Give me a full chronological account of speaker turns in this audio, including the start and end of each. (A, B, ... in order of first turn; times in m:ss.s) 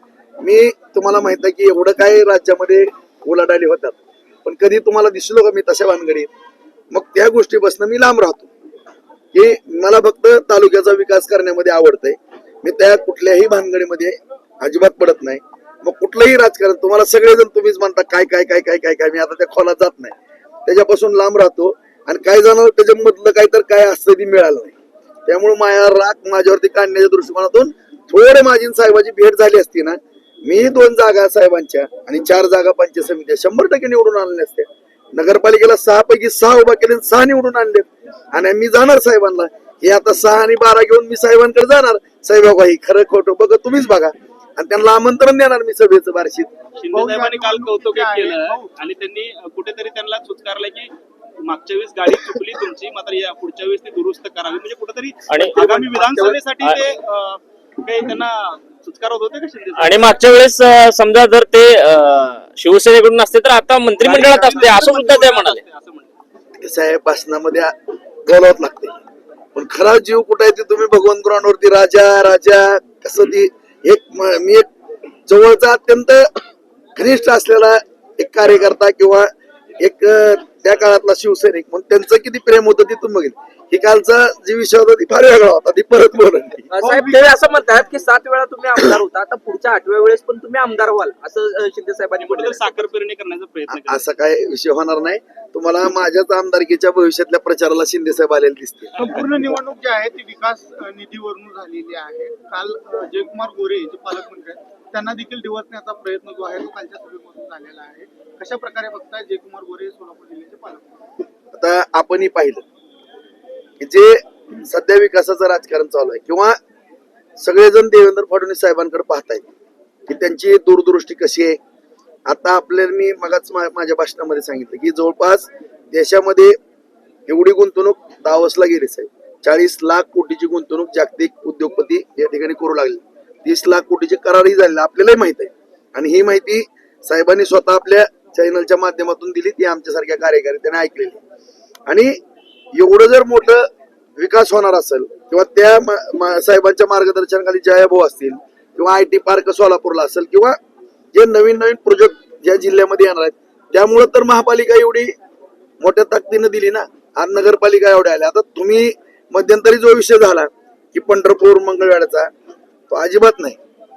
0:00.4-0:06.3 A
0:06.9-0:08.5 A
0:09.3-0:46.5 A
0:46.7-0:50.9 B
0:46.9-0:48.7 C
0:51.4-1:00.2 B
0:55.3-0:55.6 D
0:55.5-0:56.4 E
0:59.8-1:05.6 D
1:04.0-1:06.1 B
1:06.6-1:08.9 A
1:09.5-1:14.7 A
1:15.3-1:16.3 A
1:17.0-1:26.7 A
1:26.7-1:32.8 E
1:26.8-1:27.5 C
1:32.3-1:34.1 B
1:33.7-1:39.2 A
1:39.0-1:50.9 C
1:39.0-1:39.2 B
1:51.5-1:52.6 A
1:53.8-1:56.6 A
1:57.4-1:59.4 A
2:00.1-2:01.6 A
2:02.3-2:06.6 A
2:07.3-2:21.2 A
2:21.9-2:22.1 A
2:22.7-2:30.6 A
2:31.1-2:35.1 A
2:35.8-2:42.3 A
2:42.9-2:43.6 A